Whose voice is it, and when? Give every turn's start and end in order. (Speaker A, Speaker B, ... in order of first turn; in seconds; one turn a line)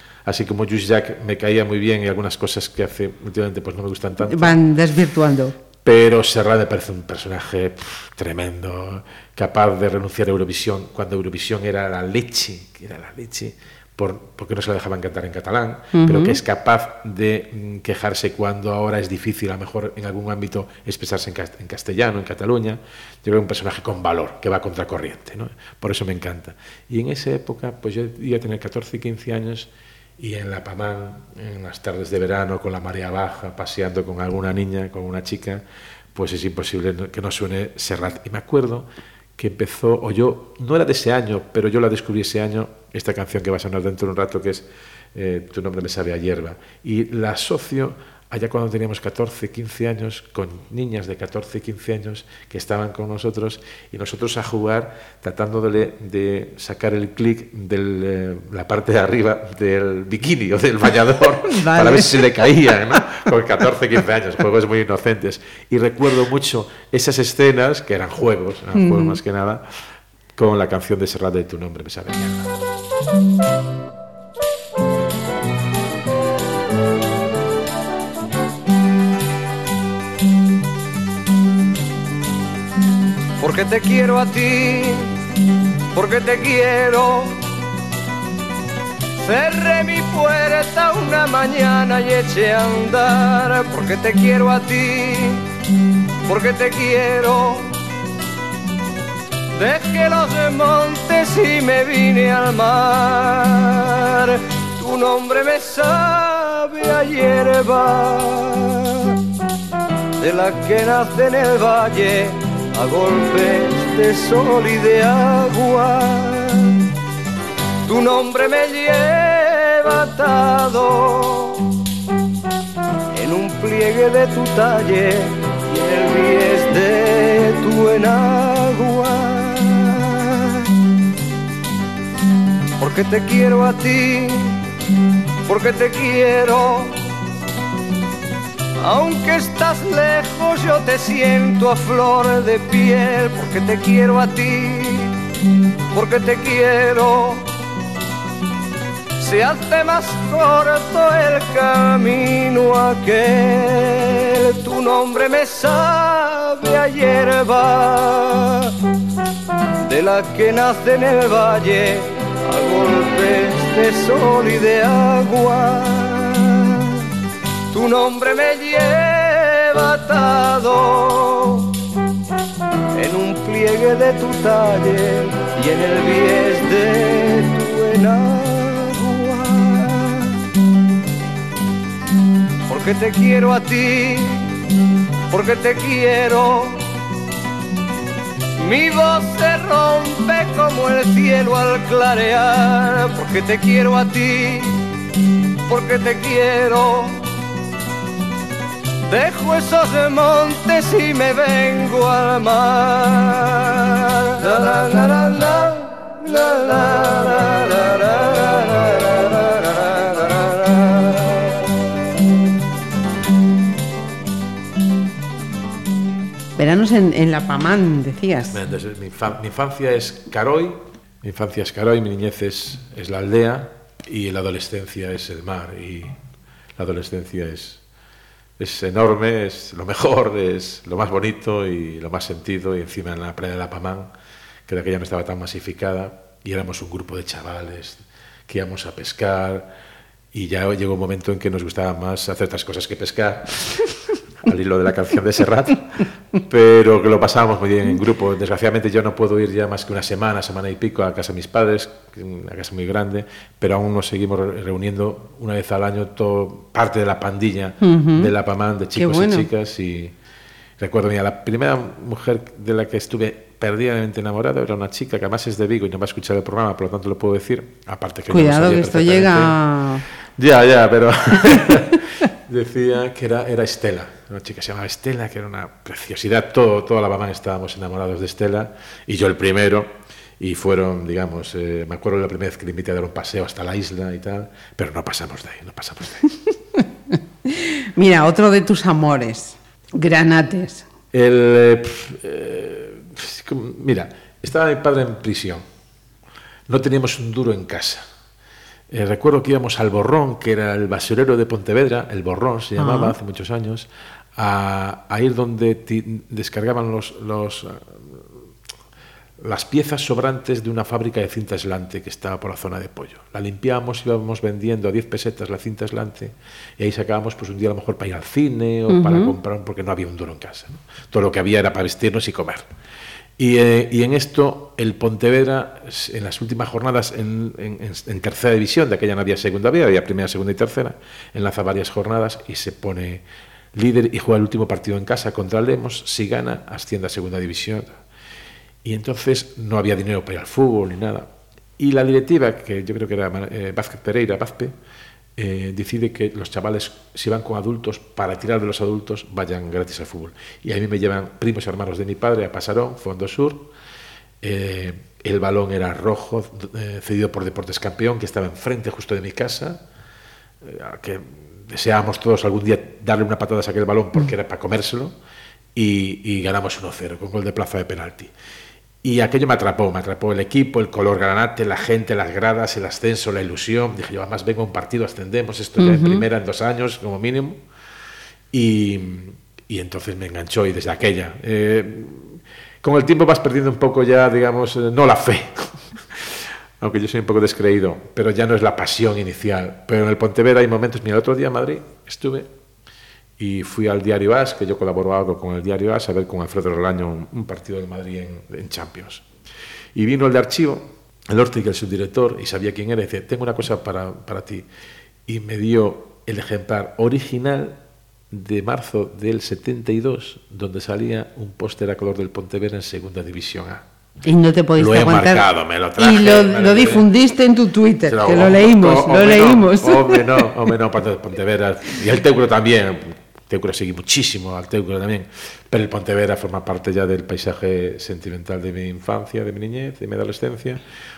Speaker A: 0.3-4.6
Speaker B: 4.3-5.5
Speaker A: 5.8-69.6
Speaker B: 15.9-16.4
Speaker B: 61.4-62.3
Speaker B: 68.7-69.2
Speaker A: 70.4-72.5
Speaker C: 83.4-85.2
Speaker C: 85.9-87.4
Speaker C: 89.2-95.5
Speaker C: 96.2-97.7
Speaker C: 99.5-109.1
Speaker C: 110.2-116.8
Speaker C: 117.9-121.6
Speaker C: 123.1-130.7
Speaker C: 132.8-134.6
Speaker C: 135.4-137.0
Speaker C: 138.8-145.2
Speaker C: 145.9-147.5
Speaker C: 149.2-158.7
Speaker C: 159.8-167.1
Speaker C: 167.7-171.7
Speaker C: 172.9-180.4
Speaker C: 182.7-184.5
Speaker C: 185.3-186.8
Speaker C: 188.6-194.8
Speaker C: 195.7-197.2
Speaker C: 199.1-211.5
Speaker B: 216.6-218.6
Speaker A: 218.5-226.1
Speaker A: 226.8-227.8
Speaker A: 228.6-234.1
Speaker A: 234.7-239.7
Speaker A: 240.3-260.1
Speaker B: 257.8-258.3
Speaker B: 258.9-259.5
Speaker A: 260.8-269.6
Speaker B: 268.3-270.1
Speaker A: 270.4-286.3
Speaker B: 287.5-290.9
Speaker A: 291.1-295.6
Speaker A: 296.7-298.1
Speaker A: 298.9-308.4
Speaker B: 302.8-303.1
Speaker A: 309.4-322.7
Speaker B: 318.9-319.3
Speaker A: 323.4-338.0
Speaker A: 338.8-344.7
Speaker A: 345.4-353.7
Speaker A: 354.4-359.8
Speaker A: 360.6-365.1
Speaker A: 365.7-368.3
Speaker A: 369.0-377.6
Speaker B: 375.8-376.2
Speaker A: 378.5-392.5
Speaker A: 393.4-399.2
Speaker A: 399.9-404.6
Speaker A: 405.3-413.8
Speaker B: 414.2-415.4
Speaker A: 414.8-417.1
Speaker B: 416.0-420.4
Speaker A: 418.1-430.8